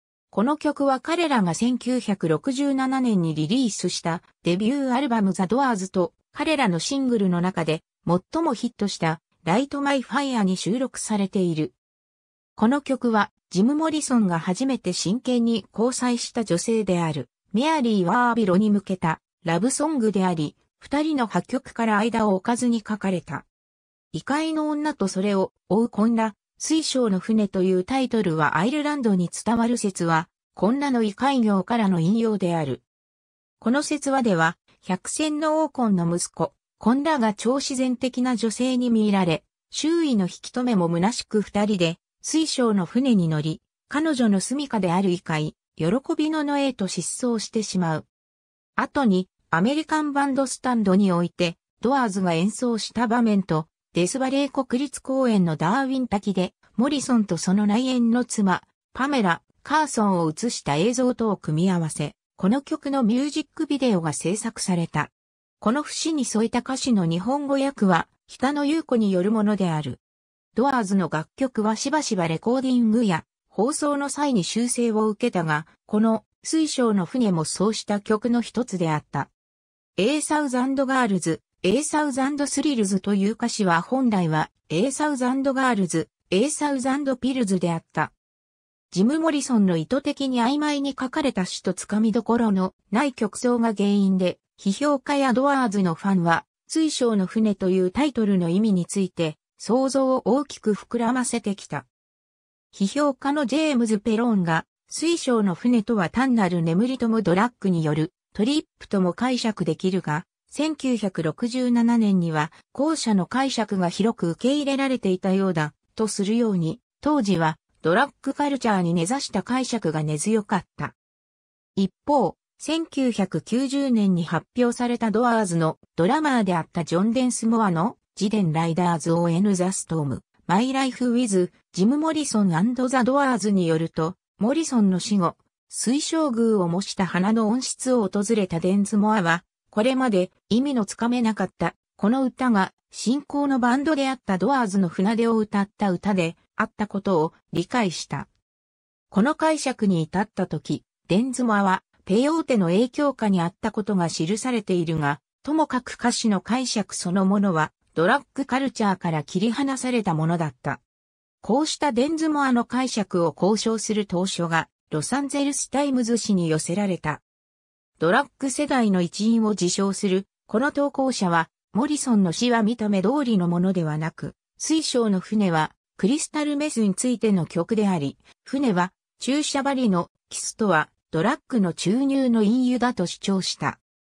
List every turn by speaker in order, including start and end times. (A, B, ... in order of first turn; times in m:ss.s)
0:00.3-0:11.8 A
0:12.6-0:23.5 A
0:24.1-0:32.8 A
0:33.6-0:48.1 A
0:48.8-1:10.0 A
1:10.6-1:19.3 A
1:20.0-1:28.1 A
1:28.9-1:41.9 A
1:42.7-2:01.0 A
2:01.8-2:28.3 A
2:29.1-2:40.8 A
2:41.4-2:47.2 A
2:48.0-3:03.8 A